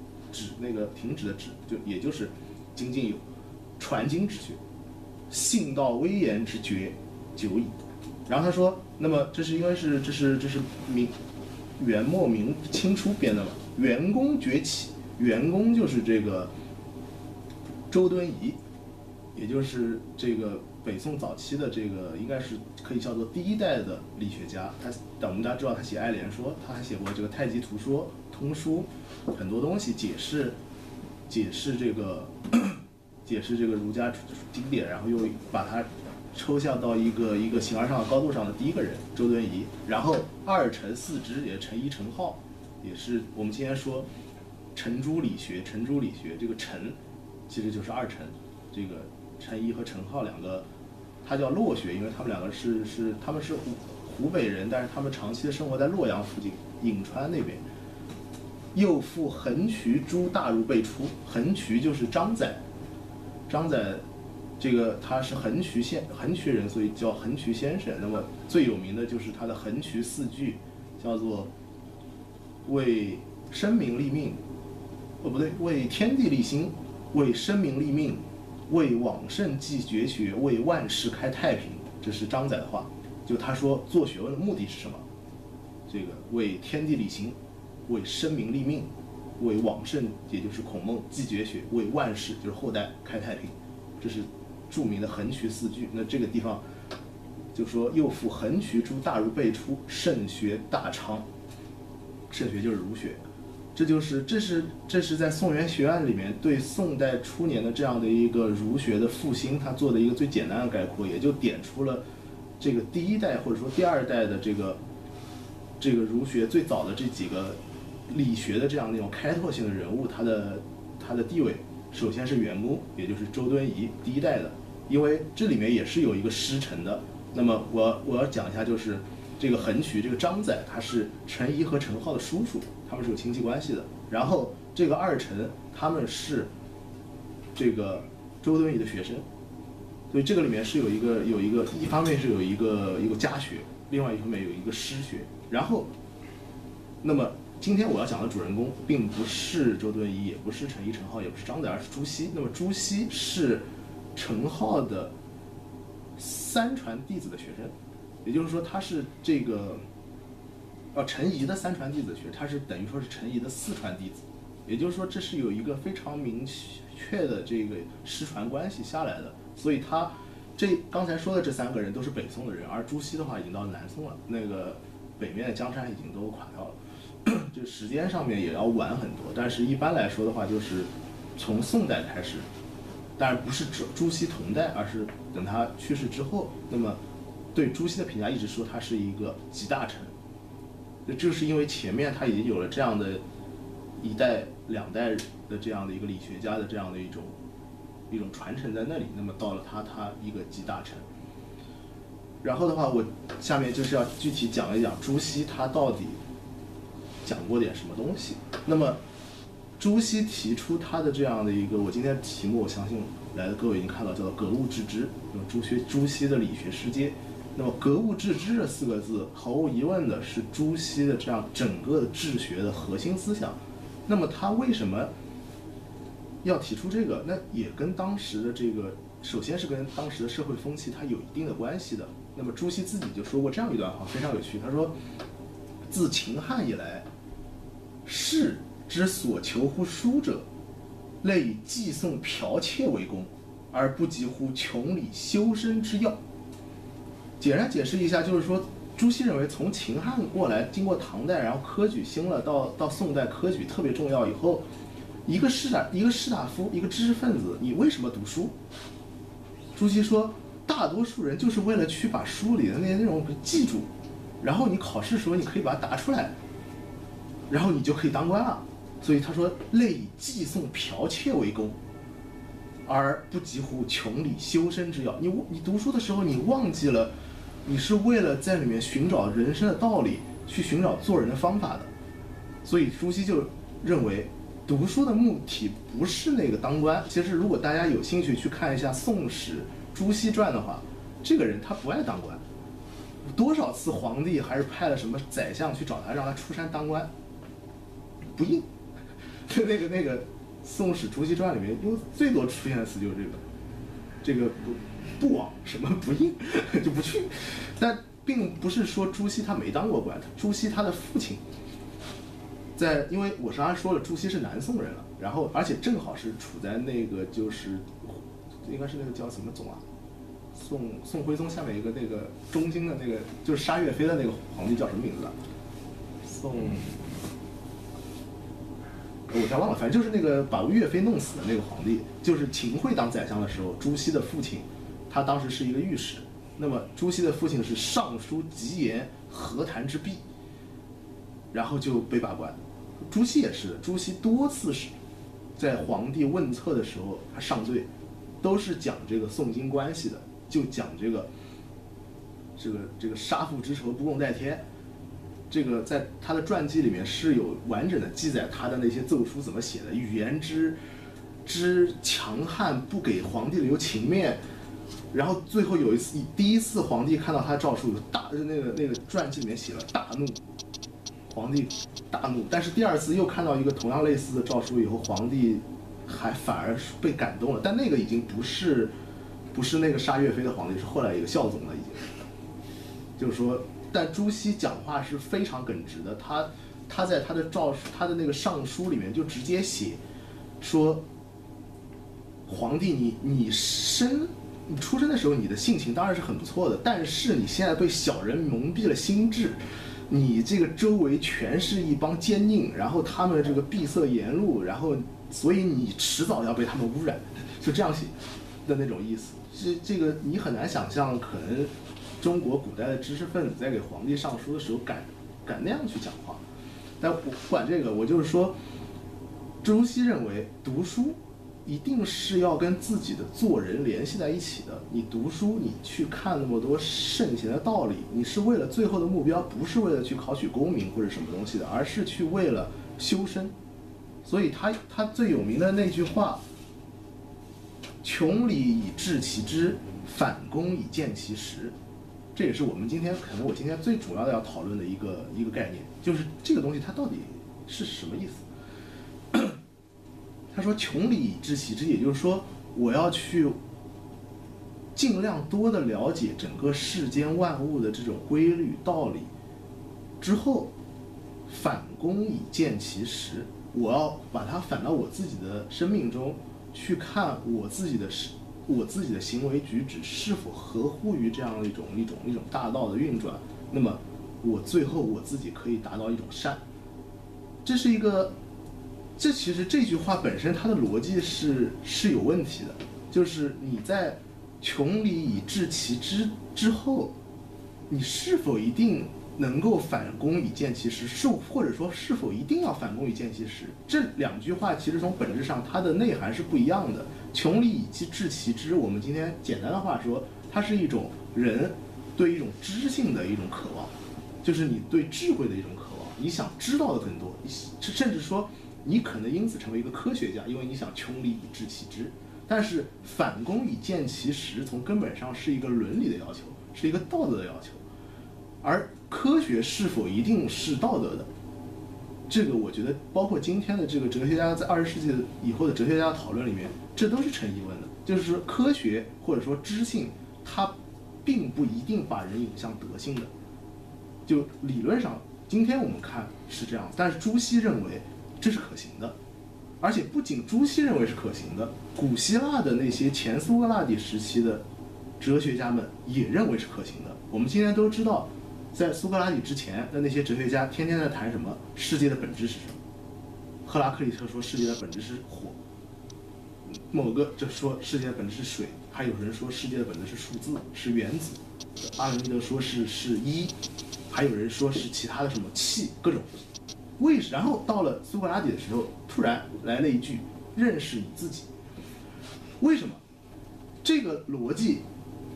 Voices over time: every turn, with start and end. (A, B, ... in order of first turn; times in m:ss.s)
0:00.3-0:03.2 A
0:03.8-0:04.6 A
0:05.3-0:07.7 A
0:08.3-0:11.1 A
0:11.8-0:16.5 A
0:17.9-0:18.6 A
0:19.3-0:30.6 A
0:31.3-0:44.1 A
0:44.7-0:47.0 A
0:47.5-0:50.6 A
0:51.2-0:57.6 A
0:58.7-1:02.6 A
1:03.5-1:04.0 A
1:04.6-1:11.5 A
1:12.6-1:14.4 A
1:15.2-1:25.0 A
1:25.9-1:27.4 A
1:27.9-1:36.6 A
1:37.5-1:41.2 A
1:42.3-1:43.2 A
1:43.7-1:52.0 A
1:52.6-1:54.8 A
1:55.8-2:16.5 A
2:17.5-2:19.2 A
2:20.1-2:25.9 A
2:27.0-2:33.6 A
2:34.2-2:35.1 A
2:36.2-2:37.7 A
2:38.2-2:39.8 A
2:40.9-3:02.5 A
3:03.2-3:07.0 A
3:07.5-3:10.1 A
3:11.0-3:13.2 A
3:14.0-3:17.4 A
3:18.1-3:21.0 A
3:22.4-3:26.2 A
3:27.2-3:29.0 A
3:29.8-3:45.1 A
3:46.4-3:54.9 A
3:55.9-3:57.1 A
3:58.0-4:00.4 A
4:01.2-4:06.2 A
4:07.4-4:14.6 A
4:15.2-4:18.5 A
4:19.7-4:23.9 A
4:24.4-4:26.4 A
4:27.5-4:31.8 A
4:32.8-4:37.1 A
4:37.6-4:41.9 A
4:42.6-4:52.4 A
4:53.2-4:57.1 A
4:58.3-4:58.7 A
4:59.4-5:03.4 A
5:04.2-5:11.4 A
5:12.8-5:19.8 A
5:20.5-5:25.3 A
5:26.2-5:27.1 A
5:29.3-5:40.2 A
5:41.5-5:42.6 A
5:43.1-5:44.9 A
5:45.6-5:47.9 A
5:48.4-5:51.3 A
5:52.6-5:54.6 A
5:55.5-6:00.8 A
6:01.4-6:04.4 A
6:05.1-6:10.4 A
6:11.3-6:18.9 A
6:19.5-6:22.1 A
6:23.2-6:30.0 A
6:30.6-6:31.0 A
6:32.4-6:56.4 A
6:57.0-6:58.5 A
6:59.6-7:13.5 A
7:14.2-7:16.4 A
7:18.0-7:21.7 A
7:22.3-7:28.4 A
7:29.3-7:29.6 A
7:30.5-7:33.6 A
7:34.9-7:39.3 A
7:40.2-7:40.7 A
7:41.5-7:56.6 A
7:57.6-7:58.3 A
7:59.2-8:07.1 A
8:07.9-8:37.8 A
8:38.6-8:41.3 A
8:42.3-8:53.3 A
8:54.2-8:59.1 A
8:59.8-9:04.6 A
9:05.2-9:12.8 A
9:13.6-9:15.6 A
9:16.7-9:23.5 A
9:24.1-9:26.4 A
9:27.0-9:31.5 A
9:32.6-9:33.0 A
9:33.8-9:34.8 A